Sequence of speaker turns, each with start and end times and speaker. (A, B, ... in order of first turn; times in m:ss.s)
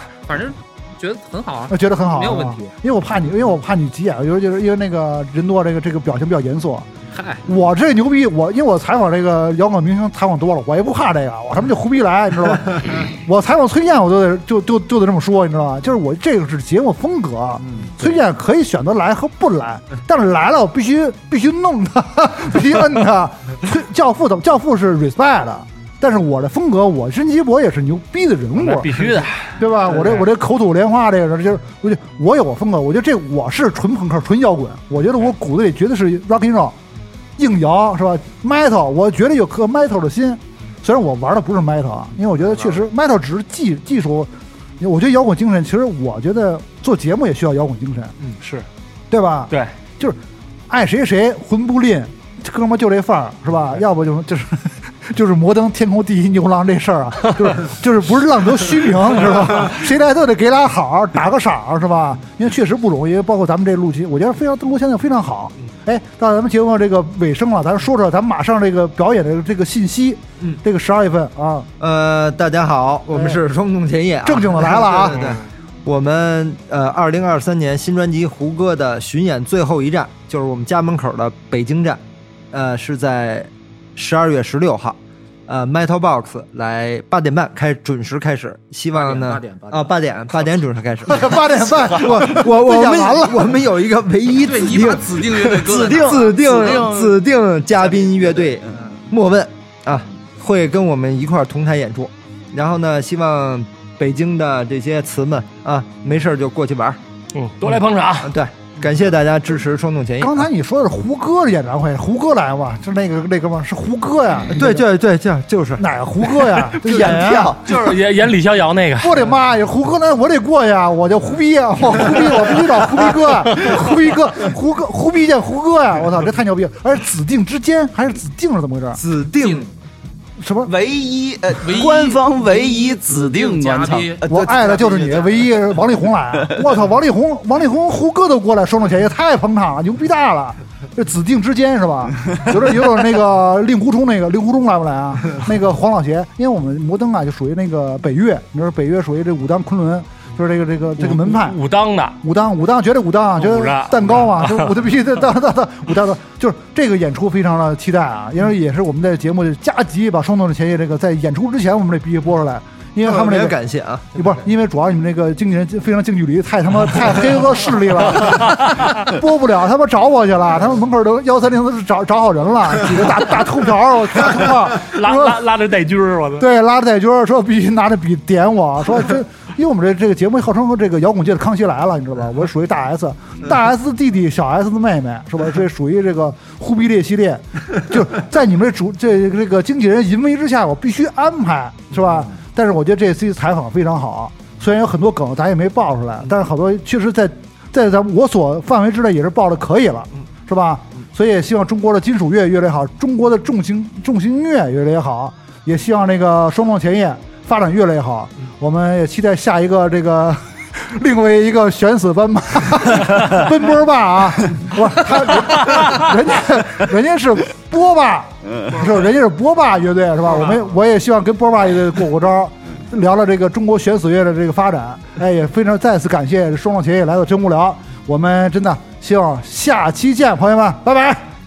0:00.3-0:02.7 A
0:01.7-0:06.9 B
0:07.1-0:07.4 A
0:07.4-0:36.8 B
0:28.6-0:29.6 C
0:37.4-0:48.1 B
0:49.1-1:11.7 B
1:11.8-1:47.0 D
1:13.1-1:13.4 B
1:14.2-1:15.2 B
1:28.9-1:29.9 A
1:31.0-1:33.6 B
1:34.4-1:37.1 A
1:35.6-1:37.1 E
1:47.3-1:48.3 C
1:48.2-1:50.4 D
1:50.2-1:54.8 B
1:54.5-1:55.9 D
1:55.8-1:57.7 B
1:56.4-1:58.0 E
1:57.6-1:59.2 C
1:59.0-2:09.0 B
2:08.9-2:09.7 D
2:09.4-2:09.7 A
2:10.4-2:10.7 B
2:10.6-2:15.8 E
2:11.6-2:15.1 A
2:14.3-2:31.6 B
2:31.0-2:32.2 C
2:32.2-2:43.6 B
2:33.4-2:34.7 C
2:43.0-2:44.2 D
2:44.1-2:55.4 B
2:54.7-2:56.5 C
2:56.4-3:51.3 B